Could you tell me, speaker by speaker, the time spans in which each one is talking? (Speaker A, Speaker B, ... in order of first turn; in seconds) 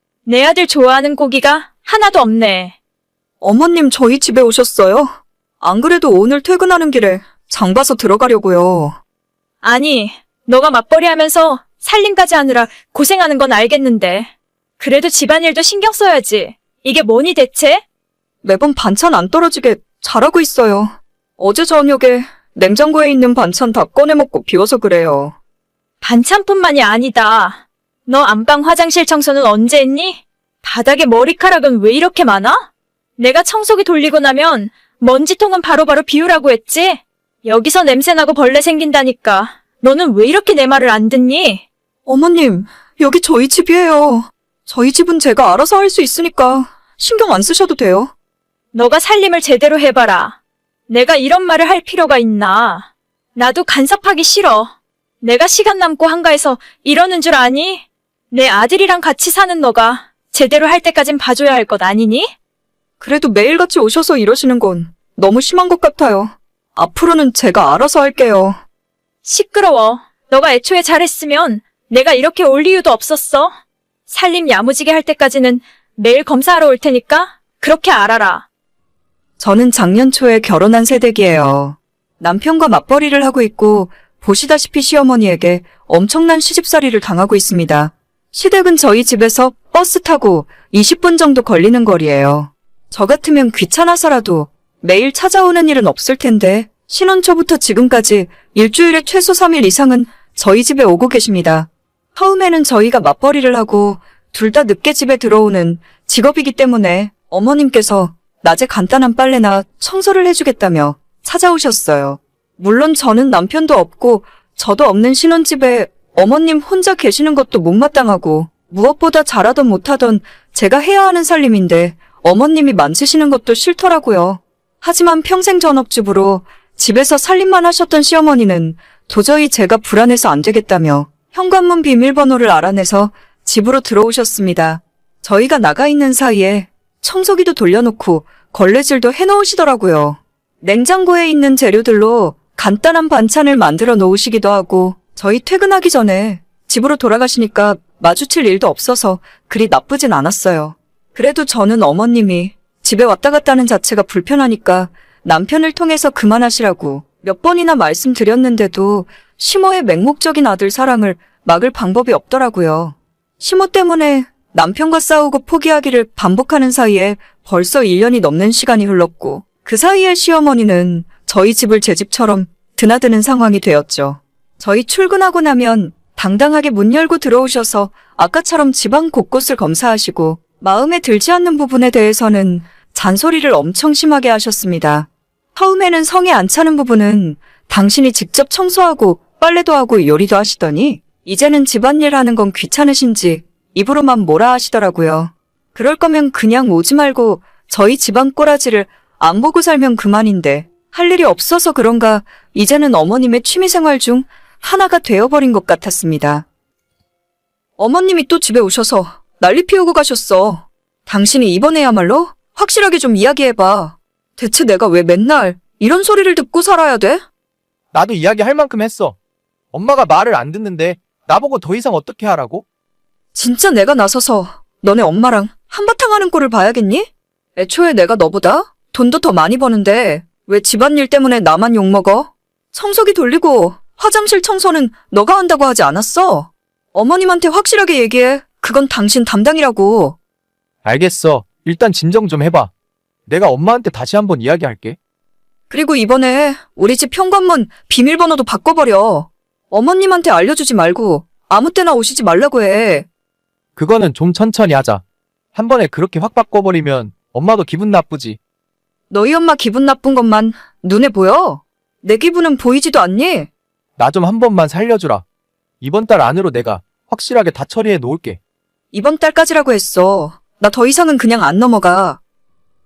Speaker A: 0.2-2.7, 9.6-17.8, 26.0-32.6, 33.2-41.6, 48.7-50.4, 50.9-62.3, 69.2-73.5, 74.1-78.4
Speaker B: 3.4-9.0, 18.4-25.4, 42.0-48.1, 63.0-68.6, 79.4-206.4, 207.8-217.2, 223.3-240.2, 245.7-253.1, 259.1-263.5, 268.9-272.2
Speaker C: 217.9-219.2, 219.7-222.6, 240.8-242.7, 243.3-245.0, 253.8-255.0, 255.5-258.4, 264.0-265.2, 265.8-268.4